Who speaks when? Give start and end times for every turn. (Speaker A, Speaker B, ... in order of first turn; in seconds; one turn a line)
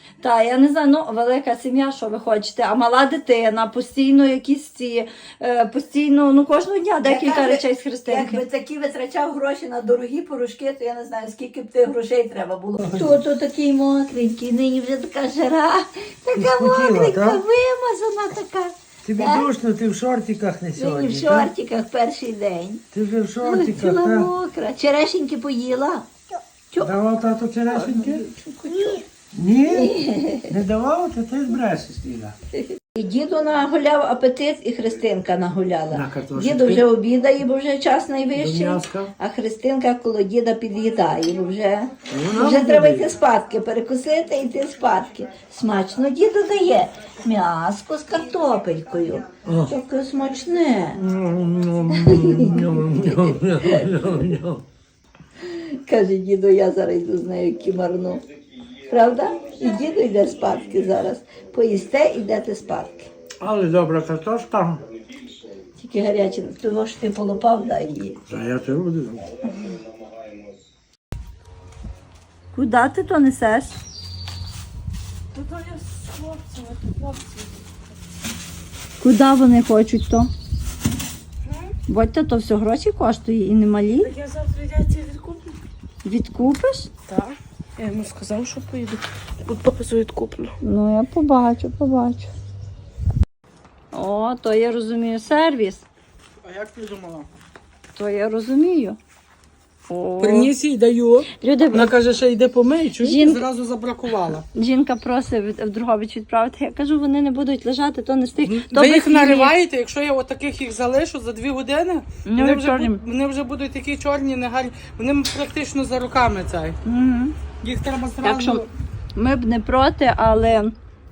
Speaker A: 0.2-8.4
Speaker B: 7.0-19.5
Speaker C: 12.8-13.2
Speaker C: 16.4-17.4
Speaker C: 19.0-21.5
Speaker B: 20.8-22.8
Speaker C: 22.9-24.3
Speaker B: 23.4-26.1
Speaker B: 26.7-27.0
Speaker C: 26.8-28.2
Speaker B: 27.7-29.0
Speaker C: 29.3-32.4
Speaker B: 29.7-30.6
Speaker B: 32.5-51.0
Speaker C: 35.9-36.9
Speaker C: 38.4-39.1
Speaker C: 42.1-43.1
Speaker C: 49.5-49.7
Speaker C: 50.9-54.6
Speaker B: 51.9-54.2
Speaker B: 55.4-58.2
Speaker B: 58.9-63.1
Speaker C: 63.4-64.8
Speaker B: 65.8-68.2
Speaker C: 68.3-69.3
Speaker A: 72.5-73.8
Speaker A: 79.0-80.3
Speaker A: 81.9-84.1
Speaker A: 86.0-86.9
Speaker D: 87.8-90.5
Speaker A: 90.6-92.3
Speaker A: 93.9-95.8
Speaker E: 96.4-97.3
Speaker A: 97.9-99.0
Speaker A: 99.9-100.5
Speaker E: 100.2-104.5
Speaker A: 101.4-101.9
Speaker A: 103.0-103.4
Speaker A: 104.5-109.5
Speaker E: 108.5-116.8
Speaker A: 112.3-113.0
Speaker A: 116.8-117.4
Speaker E: 117.6-118.7
Speaker A: 118.2-118.6
Speaker A: 119.2-120.8